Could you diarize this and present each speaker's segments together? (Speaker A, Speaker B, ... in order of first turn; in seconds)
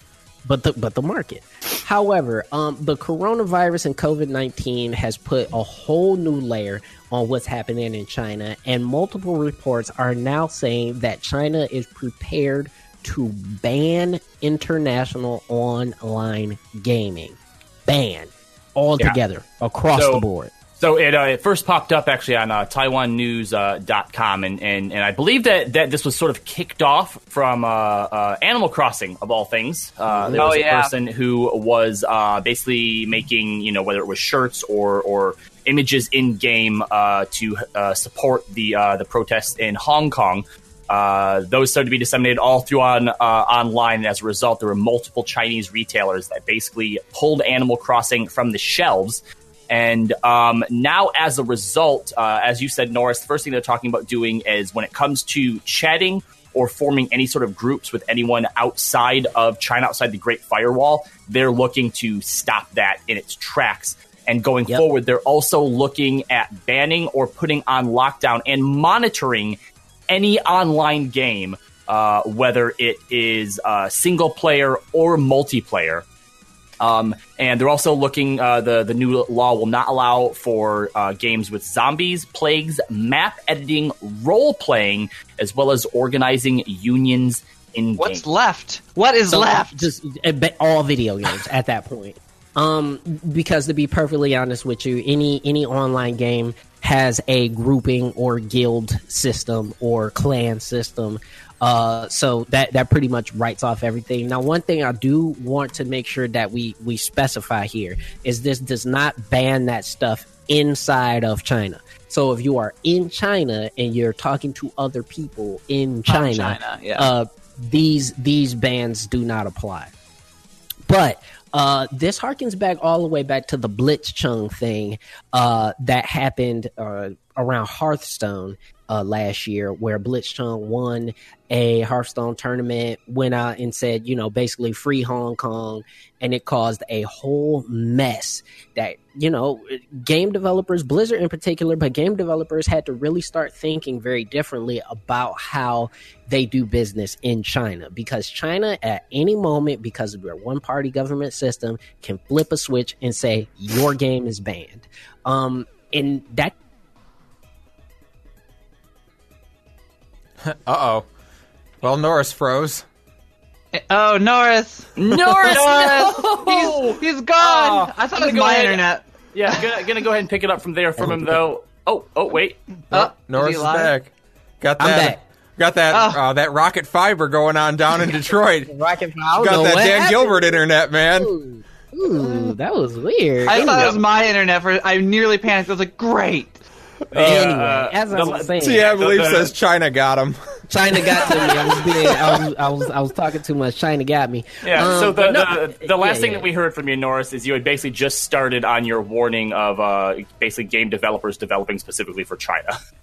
Speaker A: 0.5-20.5, 30.1-30.4, 89.3-119.9, 120.9-156.5, 171.0-171.4, 174.8-175.2, 178.1-180.6, 181.2-184.0, 187.2-188.9, 190.7-196.5
Speaker B: 19.9-20.2, 20.8-69.6, 70.1-76.1, 76.8-88.2, 165.0-172.6, 187.1-189.5, 194.6-202.8
Speaker C: 30.3-30.9, 88.0-89.9, 116.1-117.1, 163.7-169.7, 172.9-173.9, 175.9-176.2, 183.4-186.6
Speaker D: 160.4-161.0, 161.8-162.8, 172.9-178.7, 179.3-181.3, 187.1-187.5, 188.6-190.4, 190.9-191.3